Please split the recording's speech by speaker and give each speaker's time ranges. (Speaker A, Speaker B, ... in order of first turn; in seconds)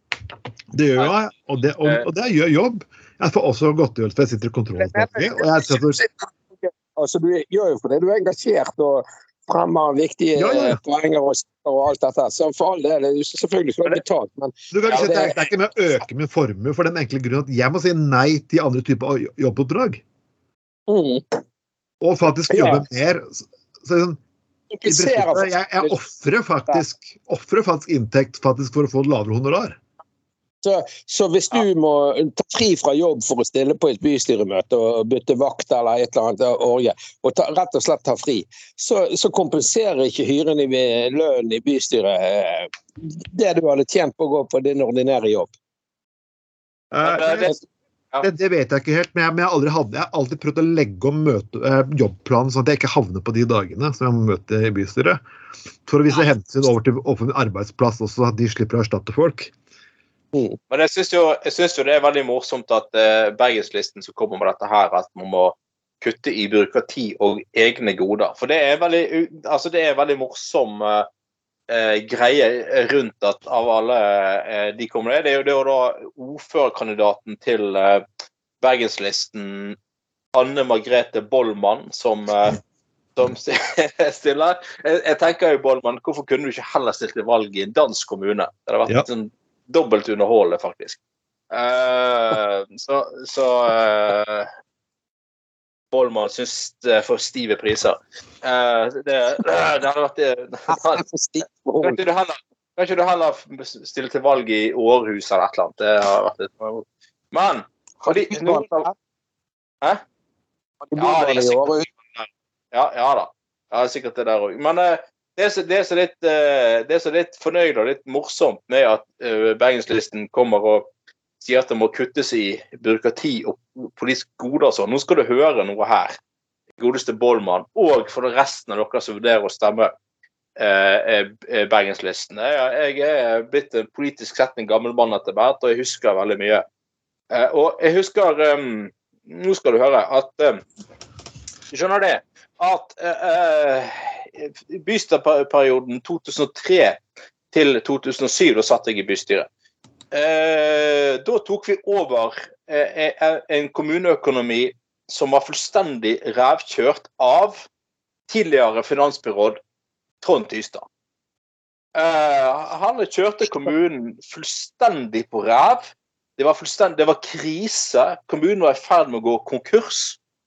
Speaker A: 0.7-6.0, 10.3-10.8, 14.7-20.0, 22.0-24.2, 24.8-29.8, 46.9-47.5, 48.2-55.2, 55.8-59.5
Speaker B: 4.8-15.4, 20.9-21.4, 22.5-22.8, 24.7-25.9, 30.6-45.5, 100.7-102.0, 108.0-108.9, 110.9-111.8
Speaker C: 14.9-15.1, 47.0-47.6, 60.7-71.1, 71.7-78.0, 78.6-79.8, 80.3-82.6, 83.2-91.0, 91.5-94.5, 95.9-101.0, 101.8-108.9, 110.9-120.9, 121.4-126.2, 126.8-129.9, 130.6-136.6, 137.3-140.6, 141.7-147.0, 147.5-149.5, 150.1-157.7, 158.3-159.6, 160.2-160.8, 161.9-170.2